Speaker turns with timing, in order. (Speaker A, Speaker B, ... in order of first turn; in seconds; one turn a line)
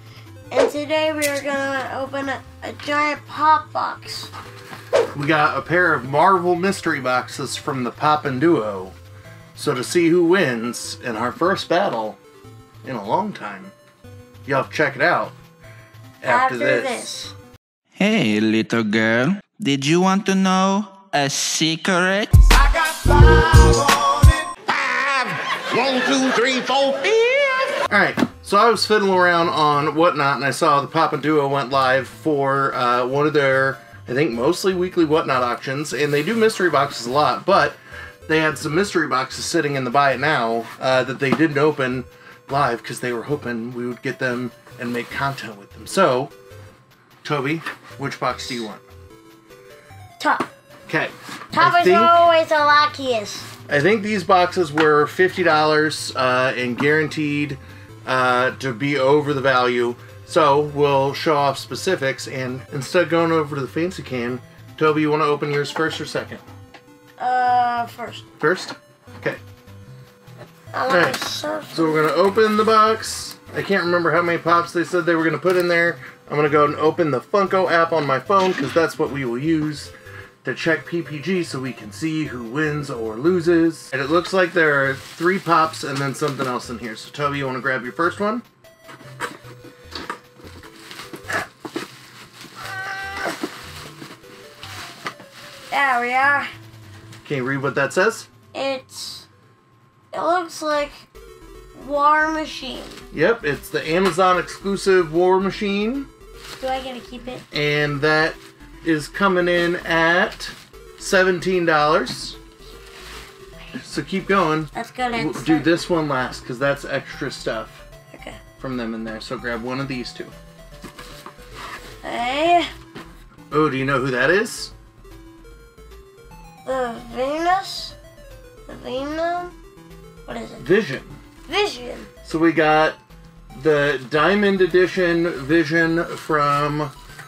Speaker A: 0.5-4.3
Speaker B: 5.2-8.9
Speaker B: 9.6-12.2
Speaker B: 12.8-13.7
Speaker B: 14.4-15.3
Speaker B: 16.2-17.1
Speaker A: 16.2-17.3
Speaker C: 17.9-22.4
Speaker D: 22.6-27.8
Speaker B: 27.9-46.3
Speaker B: 47.2-48.8
Speaker A: 50.2-50.5
Speaker B: 50.9-52.2
Speaker A: 51.5-53.5
Speaker B: 53.7-66.4
Speaker A: 67.2-68.2
Speaker B: 68.4-69.4
Speaker A: 70.7-72.2
Speaker B: 70.9-79.9
Speaker B: 80.4-88.4
Speaker A: 95.7-96.5
Speaker B: 97.2-98.3
Speaker A: 98.5-99.3
Speaker A: 100.1-101.0
Speaker A: 101.8-103.0
Speaker B: 103.1-106.1
Speaker A: 106.6-107.5
Speaker B: 107.5-112.4
Speaker B: 113.7-117.8
Speaker A: 114.7-115.8
Speaker A: 118.1-118.4
Speaker B: 118.6-120.3
Speaker A: 122.0-122.7
Speaker B: 123.5-124.7
Speaker A: 126.6-128.0
Speaker A: 128.7-129.5
Speaker A: 130.2-130.6
Speaker B: 130.6-131.2
Speaker A: 131.4-132.1
Speaker B: 132.2-133.0
Speaker B: 133.5-136.9